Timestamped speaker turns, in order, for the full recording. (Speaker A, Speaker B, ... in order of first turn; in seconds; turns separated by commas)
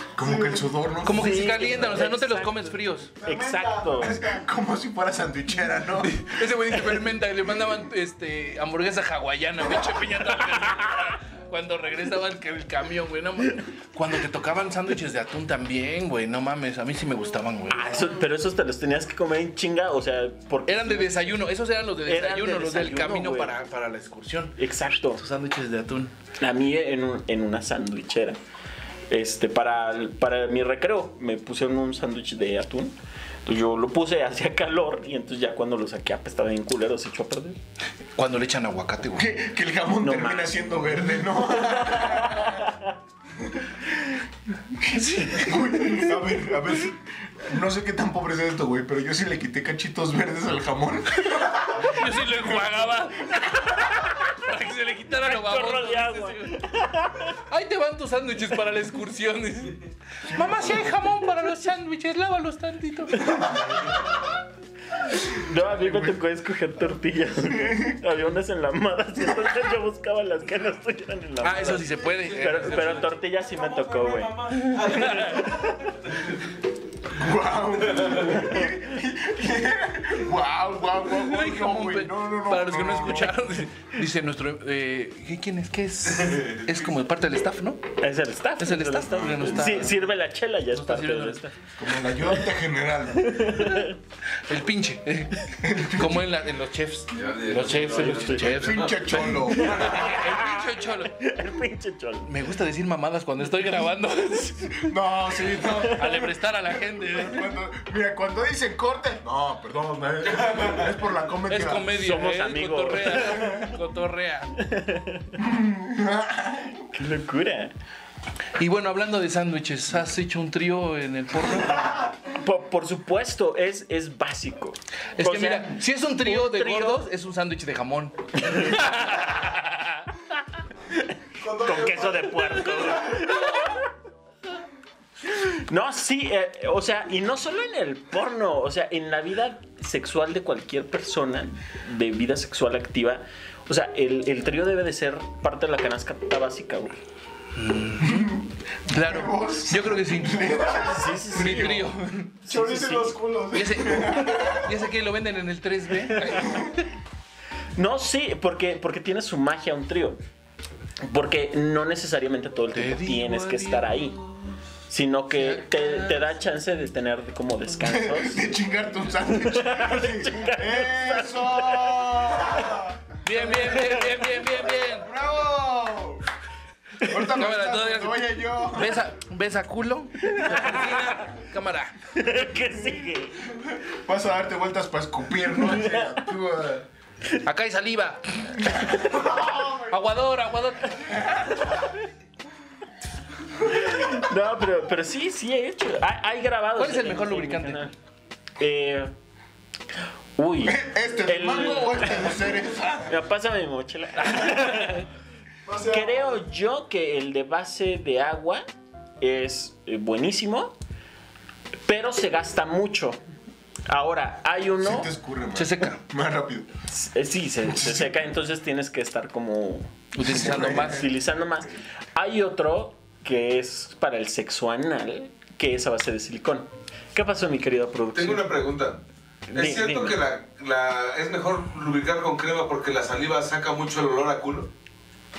Speaker A: 0.1-1.7, Speaker B: 0.2-0.7, Speaker C: 1.0-3.1, Speaker D: 1.1-4.2, Speaker B: 3.2-4.4, Speaker A: 4.0-6.5, Speaker C: 6.0-17.9, Speaker D: 17.7-21.1, Speaker C: 20.7-24.6, Speaker D: 22.1-23.5, Speaker D: 24.6-25.2, Speaker C: 25.1-26.1, Speaker D: 26.4-28.4, Speaker D: 29.1-32.9, Speaker D: 33.5-37.6, Speaker C: 38.2-39.3, Speaker A: 39.1-42.7, Speaker D: 40.0-40.6, Speaker D: 41.9-42.8, Speaker A: 44.8-52.7, Speaker C: 44.9-46.0, Speaker C: 51.9-56.6, Speaker D: 55.2-57.4, Speaker C: 57.3-63.5, Speaker D: 65.1-75.9, Speaker C: 71.4-73.1, Speaker E: 72.5-75.5, Speaker C: 74.7-75.4, Speaker A: 77.1-83.4, Speaker C: 81.1-87.8, Speaker D: 88.0-91.5, Speaker C: 88.6-90.1, Speaker C: 90.7-91.4, Speaker A: 91.8-93.5, Speaker D: 93.2-94.0, Speaker C: 93.5-93.9, Speaker C: 94.5-101.2, Speaker A: 95.6-96.3, Speaker E: 97.1-99.0, Speaker D: 97.8-98.6, Speaker A: 98.5-100.0, Speaker D: 99.1-102.3, Speaker C: 102.3-104.9, Speaker A: 104.8-111.9, Speaker C: 105.9-107.5, Speaker C: 111.5-114.6, Speaker D: 111.9-113.7, Speaker D: 114.6-115.3, Speaker A: 115.4-116.9, Speaker D: 116.9-117.7, Speaker C: 118.6-122.1, Speaker D: 122.3-127.1, Speaker C: 125.2-130.1, Speaker D: 128.4-128.8, Speaker B: 131.4-133.3, Speaker D: 131.6-133.8, Speaker D: 135.2-147.0, Speaker C: 147.6-150.6, Speaker A: 148.0-151.9, Speaker D: 150.7-151.9, Speaker C: 151.3-152.3, Speaker D: 152.4-153.2, Speaker B: 152.4-154.1, Speaker C: 153.5-156.8, Speaker A: 153.8-154.7, Speaker A: 156.3-156.7, Speaker D: 157.8-160.2, Speaker D: 161.1-164.2, Speaker C: 162.7-164.4, Speaker D: 164.9-168.5, Speaker C: 165.3-166.4, Speaker A: 167.8-174.1, Speaker D: 169.5-172.8, Speaker C: 173.2-175.1, Speaker A: 174.8-176.2, Speaker A: 177.0-179.1, Speaker C: 177.2-182.0, Speaker D: 180.3-181.3, Speaker D: 182.1-183.4, Speaker A: 183.5-186.9, Speaker C: 187.4-191.5, Speaker A: 188.7-189.4, Speaker D: 193.7-197.9, Speaker C: 196.8-197.8, Speaker D: 198.6-199.1, Speaker D: 200.4-202.4, Speaker A: 200.6-203.2, Speaker D: 203.1-205.1, Speaker C: 204.2-205.0, Speaker B: 205.7-206.4, Speaker D: 205.8-208.7, Speaker D: 209.2-210.8, Speaker D: 211.9-213.2, Speaker D: 213.9-215.1, Speaker A: 214.8-216.7, Speaker C: 215.5-216.0, Speaker D: 216.9-228.5, Speaker A: 217.7-218.2, Speaker C: 220.2-221.1, Speaker A: 220.2-221.1, Speaker E: 228.1-229.0, Speaker D: 229.5-230.2, Speaker E: 229.5-234.7